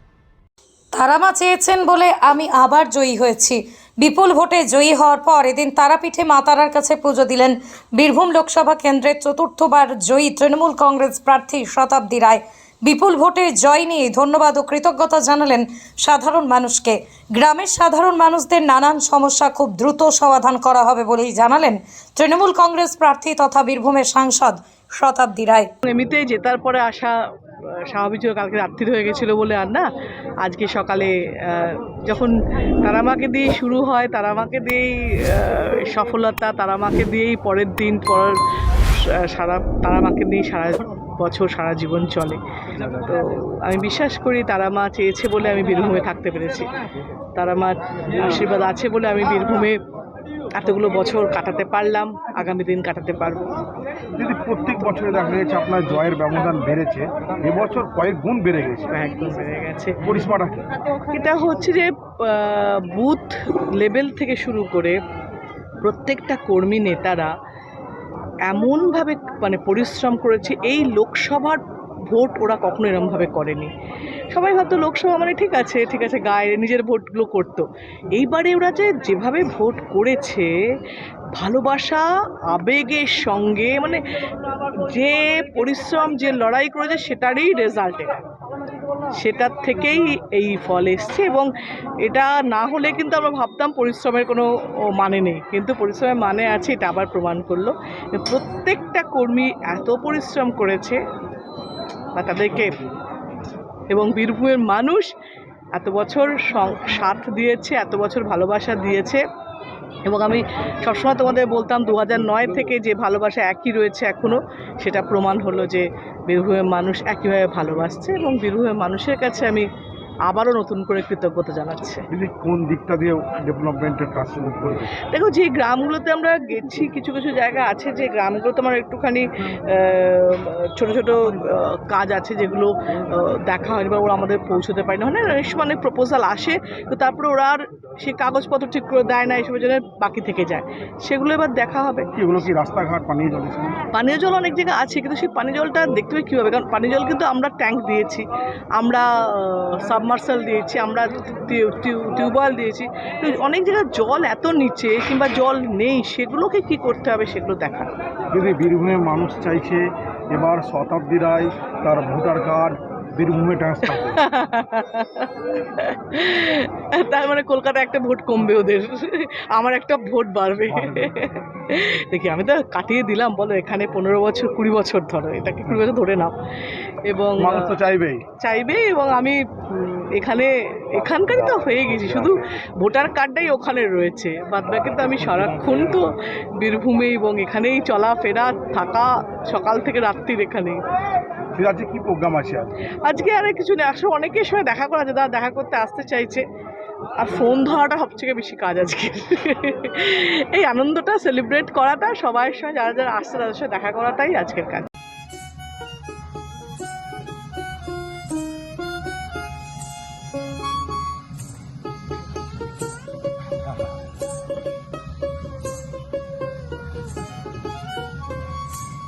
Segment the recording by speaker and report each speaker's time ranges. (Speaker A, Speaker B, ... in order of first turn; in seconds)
Speaker A: 0.9-25.7
Speaker B: 25.8-29.9, 30.4-38.4, 38.9-46.7, 47.4-49.8, 50.5-53.5, 58.9-60.0, 61.1-65.0, 65.8-67.3, 68.5-73.7, 74.3-80.5, 81.3-88.2, 89.1-91.5, 92.0-101.0, 102.2-102.8, 103.9-105.1, 105.8-109.2, 110.0-119.7, 120.3-122.1, 125.0-142.1, 143.9-148.2, 148.8-157.9, 163.9-176.3, 177.0-177.7, 178.4-186.0, 186.6-190.8, 193.1-196.4, 197.2-204.9
Speaker C: 54.2-58.9, 60.0-60.6, 122.1-125.0, 142.2-143.8, 158.3-164.2, 170.7-171.1, 177.4-178.2, 191.6-192.7